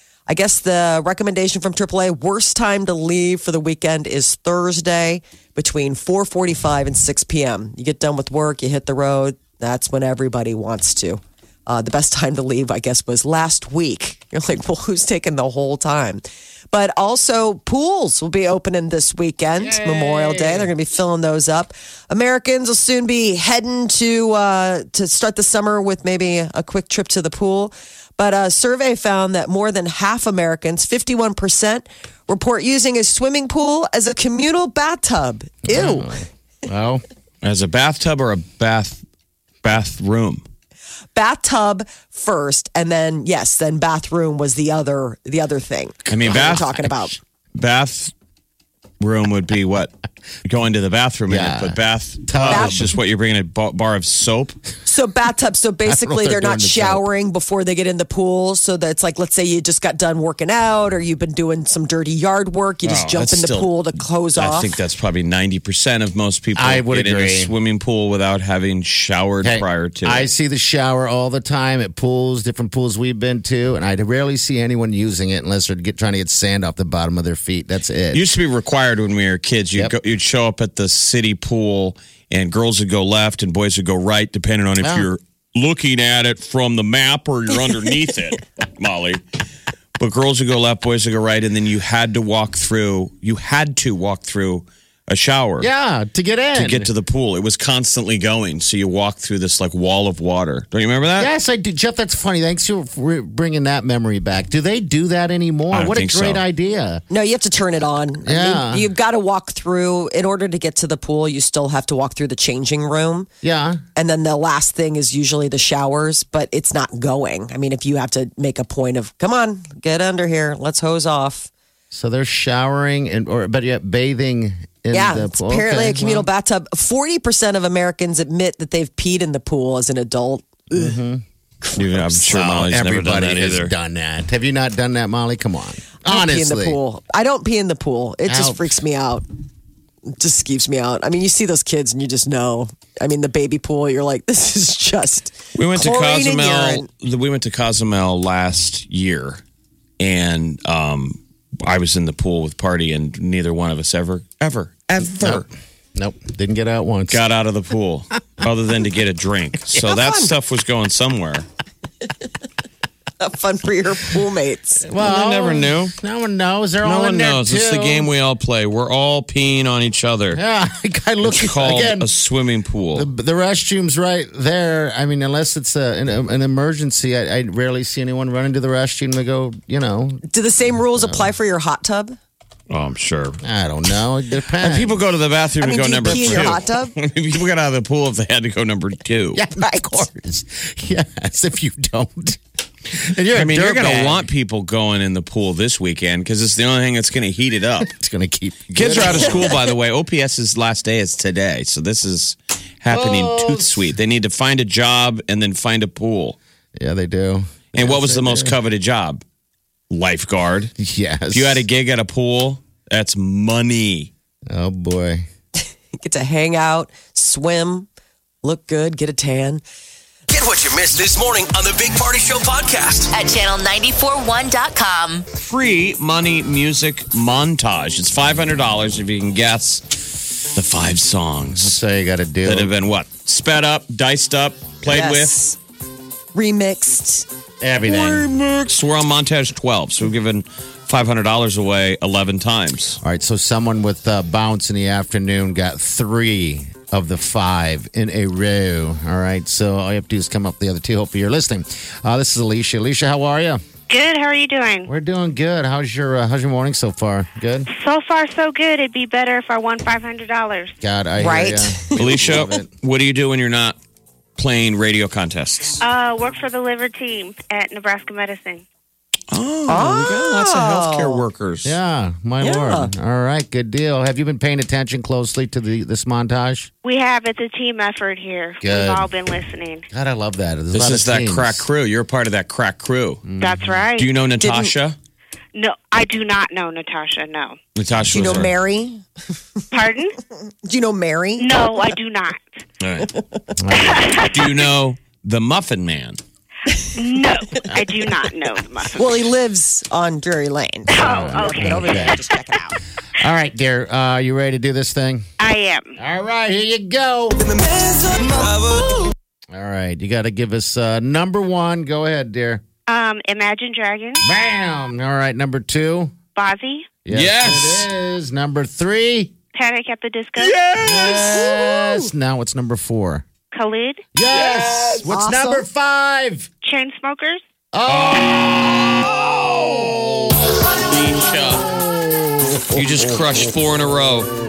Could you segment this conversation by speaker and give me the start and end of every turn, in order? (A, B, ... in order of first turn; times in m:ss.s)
0:00.3-0:36.1 A
0:19.6-0:20.7 B
0:35.7-0:37.0 B
0:37.4-0:39.0 C
0:39.6-0:40.4 C
0:41.2-0:47.2 A
0:46.1-0:46.9 C
0:47.6-0:48.1 C
0:49.0-0:49.9 C
0:50.4-0:54.6 C
0:51.3-0:52.9 B
0:52.5-0:52.9 A
0:54.8-1:04.7 A
0:55.8-0:57.0 B
1:02.8-1:10.3 C
1:06.6-1:07.5 B
1:09.4-1:18.2 B
1:18.1-1:29.2 C
1:24.8-1:25.1 B
1:30.0-1:35.7 C
1:35.6-1:36.9 B
1:36.6-1:41.3 C
1:41.2-1:47.0 B
1:45.7-1:46.4 C
1:47.1-1:53.3 A
1:48.2-1:48.9 B
1:53.4-1:53.8 B
1:54.0-2:01.5 A
2:01.9-2:06.3 B
2:04.9-2:11.0 A
2:10.7-2:11.2 B
2:11.6-2:12.2 A
2:11.8-2:13.7 C
2:12.2-2:16.8 B
2:16.0-2:19.2 A
2:18.3-2:18.8 B
2:20.1-2:26.9 A
2:25.6-2:29.4 C
2:30.0-2:35.5 C
2:35.2-2:37.2 B
2:37.1-2:41.5 C
2:39.8-2:40.3 A
2:43.2-2:44.9 A
2:44.8-2:48.1 B
2:45.0-2:45.9 C
2:46.8-2:50.4 C
2:50.3-2:52.1 B
2:51.2-2:53.1 C
2:53.0-3:01.3 B
3:00.3-3:02.2 A
3:02.7-3:03.4 C
3:03.4-3:05.0 B
3:04.6-3:09.4 C
3:05.6-3:06.9 A
3:06.0-3:06.6 B
3:09.3-3:14.3 B
3:09.6-3:10.0 A
3:13.3-3:17.9 C
3:17.8-3:19.6 B
3:18.7-3:26.4 C
3:22.9-3:23.9 B
3:26.8-3:28.6 B
3:27.7-3:29.2 C
3:29.9-3:30.7 C
3:30.8-3:31.6 B
3:31.3-3:34.1 C
3:34.5-3:35.3 B
3:36.0-3:37.9 A
3:38.4-3:39.6 A
3:40.3-3:43.1 D
3:43.1-3:45.3 E
3:45.4-3:50.0 C
3:50.5-3:51.8 C
3:51.5-3:52.7 B
3:52.4-3:55.4 C
3:54.8-3:55.6 A
3:56.3-3:57.3 A
3:57.6-3:58.3 B
3:57.8-4:03.0 C
4:03.0-4:13.6 B
4:13.9-4:14.9 F
4:14.9-4:17.7 B
4:17.7-4:20.8 F
4:20.8-4:22.7 B
4:21.2-4:22.0 A
4:22.0-4:23.8 C
4:24.4-4:25.8 C
4:25.8-4:28.6 F
4:29.3-4:31.8 C
4:29.7-4:31.2 A
4:31.6-4:36.7 B
4:32.4-4:32.9 A
4:36.8-4:39.9 F
4:38.6-4:39.1 B
4:39.9-4:41.7 B
4:40.7-4:43.3 C
4:43.3-4:43.8 B
4:43.4-4:44.1 F
4:44.0-4:45.0 C
4:44.4-4:44.7 A
4:45.6-4:47.6 F
4:47.8-4:48.5 C
4:48.1-4:49.0 A
4:49.7-4:50.2 F
4:50.6-4:51.6 A
4:51.4-4:52.4 F
4:52.8-4:53.1 C
4:53.6-4:54.2 B
4:53.8-4:54.7 F
4:54.3-4:56.2 C
4:56.9-4:59.2 F
4:59.0-5:02.8 A
5:00.9-5:02.2 F
5:01.0-5:02.2 B
5:03.2-5:05.3 B
5:05.4-5:06.0 F
5:06.0-5:07.5 B
5:07.4-5:09.1 D
5:09.5-5:12.6 B
5:12.9-5:14.2 F
5:14.2-5:16.1 B
5:16.4-5:16.9 F
5:17.0-5:19.3 B
5:17.1-5:17.9 C
5:19.5-5:20.6 F
5:20.4-5:21.7 C
5:20.8-5:23.2 B
5:23.5-5:24.0 F
5:24.2-5:26.5 B
5:24.3-5:25.1 C
5:25.1-5:25.6 A
5:26.6-5:27.4 F
5:27.7-5:30.7 B
5:27.9-5:31.7 C
5:31.5-5:33.2 B
5:32.7-5:34.3 C